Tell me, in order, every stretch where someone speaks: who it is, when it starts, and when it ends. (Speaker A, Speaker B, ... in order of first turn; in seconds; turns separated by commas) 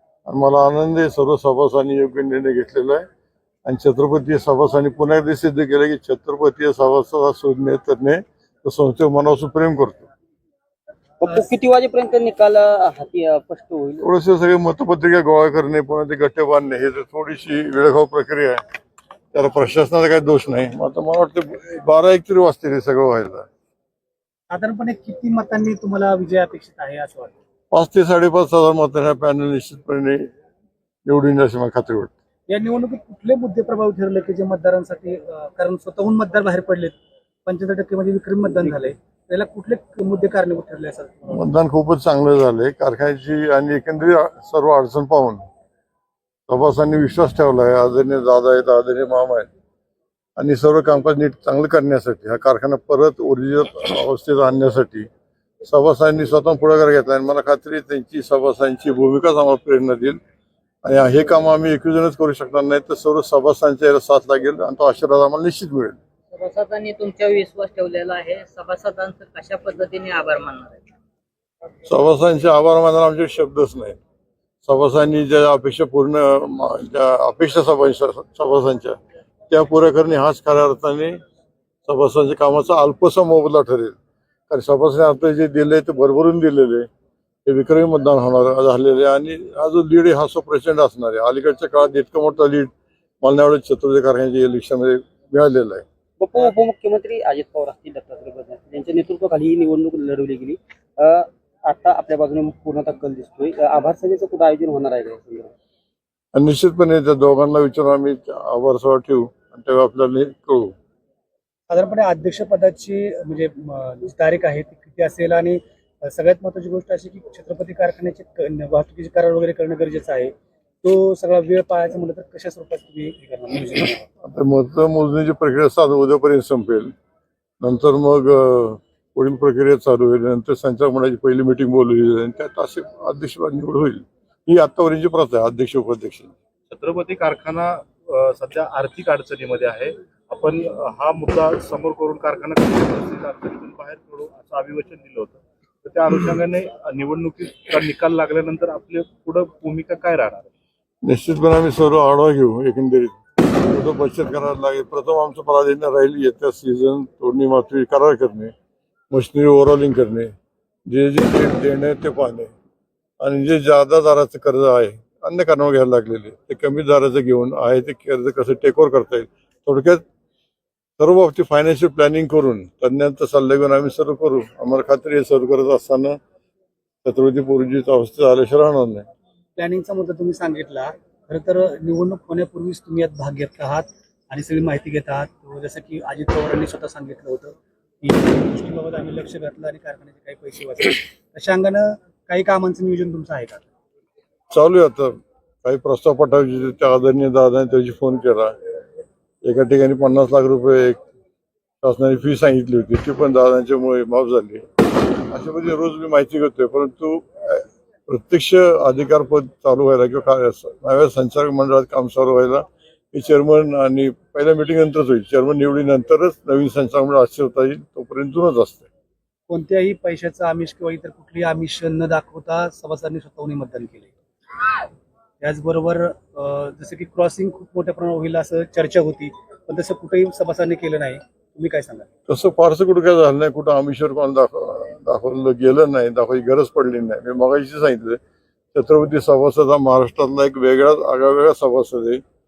Speaker A: 0.3-3.1, Speaker A: 3.7-10.1, Speaker B: 11.2-14.1, Speaker A: 14.0-18.6, Speaker A: 19.3-23.5, Speaker C: 24.5-27.4, Speaker A: 27.7-30.3, Speaker A: 31.1-32.1, Speaker C: 32.5-37.0, Speaker C: 37.5-41.3, Speaker A: 41.3-45.4, Speaker A: 46.5-49.5, Speaker A: 50.4-55.1, Speaker A: 55.6-60.2, Speaker A: 60.8-66.0, Speaker D: 66.3-70.8, Speaker A: 71.9-74.0, Speaker A: 74.6-79.0, Speaker A: 79.5-81.2, Speaker A: 81.9-84.0, Speaker A: 84.5-86.9, Speaker A: 87.5-92.7, Speaker A: 93.2-95.8, Speaker B: 96.2-105.5, Speaker A: 106.3-110.7, Speaker C: 111.7-120.3, Speaker C: 120.8-124.1, Speaker A: 124.2-126.9, Speaker A: 127.6-136.3, Speaker E: 136.7-150.5, Speaker A: 151.0-158.5, Speaker A: 159.1-160.3, Speaker A: 160.9-162.5, Speaker A: 163.2-170.0, Speaker A: 171.0-176.2, Speaker A: 177.1-179.1, Speaker C: 179.6-193.6, Speaker A: 194.5-198.6, Speaker A: 199.4-201.0, Speaker A: 201.8-204.7, Speaker A: 205.3-218.9, Speaker C: 219.5-224.1, Speaker C: 225.4-232.1, Speaker A: 232.3-238.2, Speaker A: 238.7-242.2